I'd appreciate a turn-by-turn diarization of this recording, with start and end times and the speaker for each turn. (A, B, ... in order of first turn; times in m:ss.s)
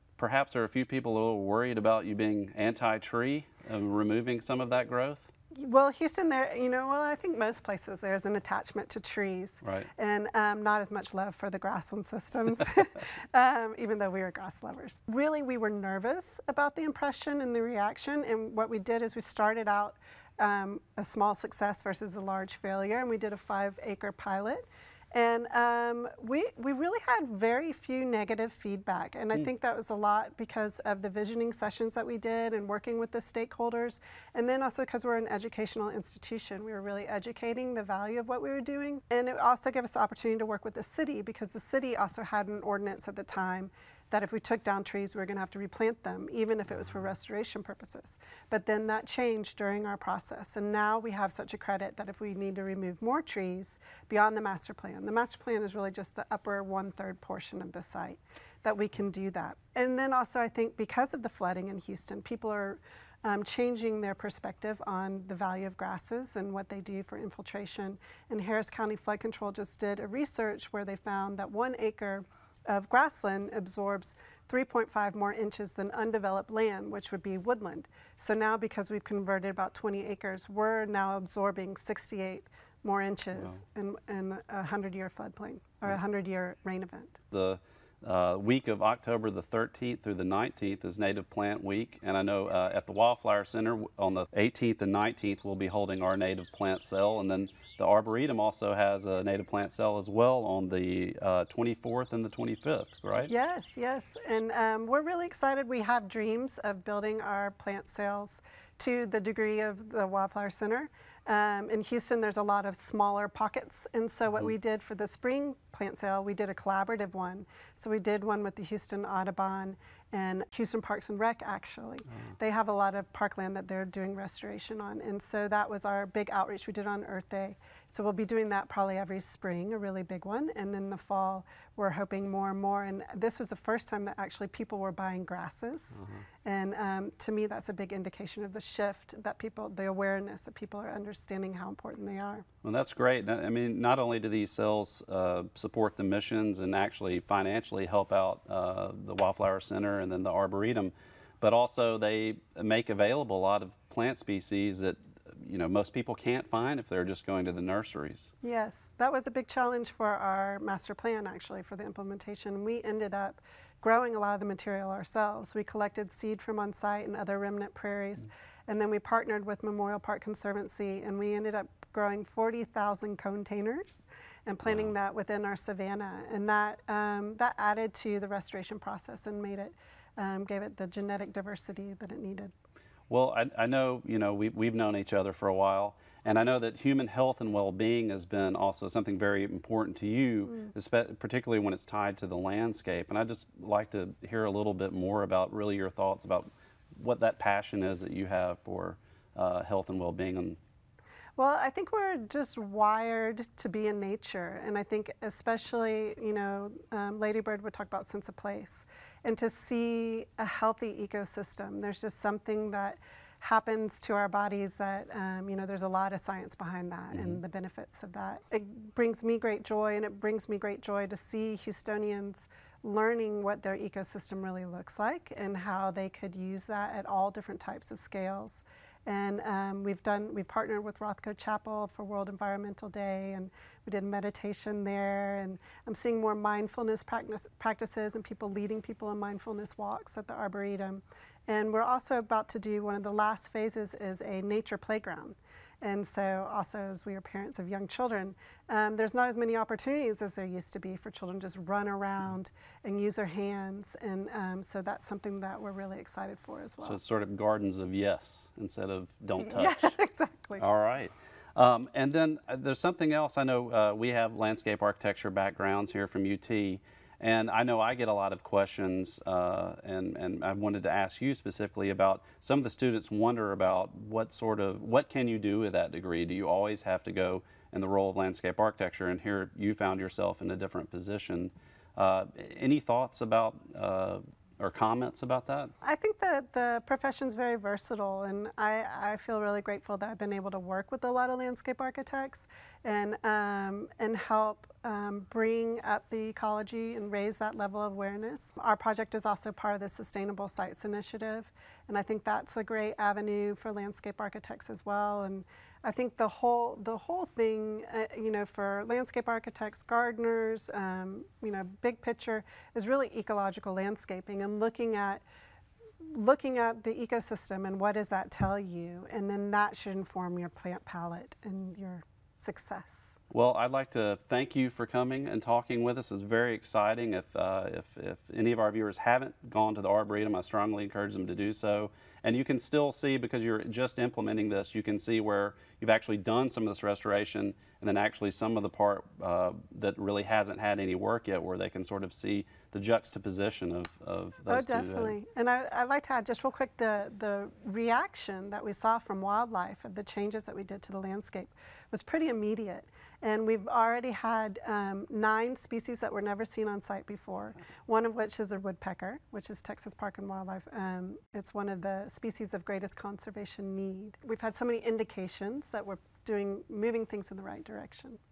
0:00.2-0:05.3 A
0:05.5-1:27.2 B
0:09.6-0:09.9 A
1:27.3-1:43.3 A
1:43.3-2:22.4 B
2:16.0-2:16.2 A
2:22.6-2:38.3 A
2:38.4-3:02.5 B
2:54.6-2:54.9 A
3:03.1-3:20.6 A
3:21.4-4:17.0 B
3:37.1-3:37.4 A
4:16.8-4:19.9 A
4:19.4-4:20.6 B
4:20.6-4:45.7 A
4:45.8-5:15.2 B
5:16.1-5:23.2 B
5:23.3-5:45.2 A
5:44.5-6:08.2 B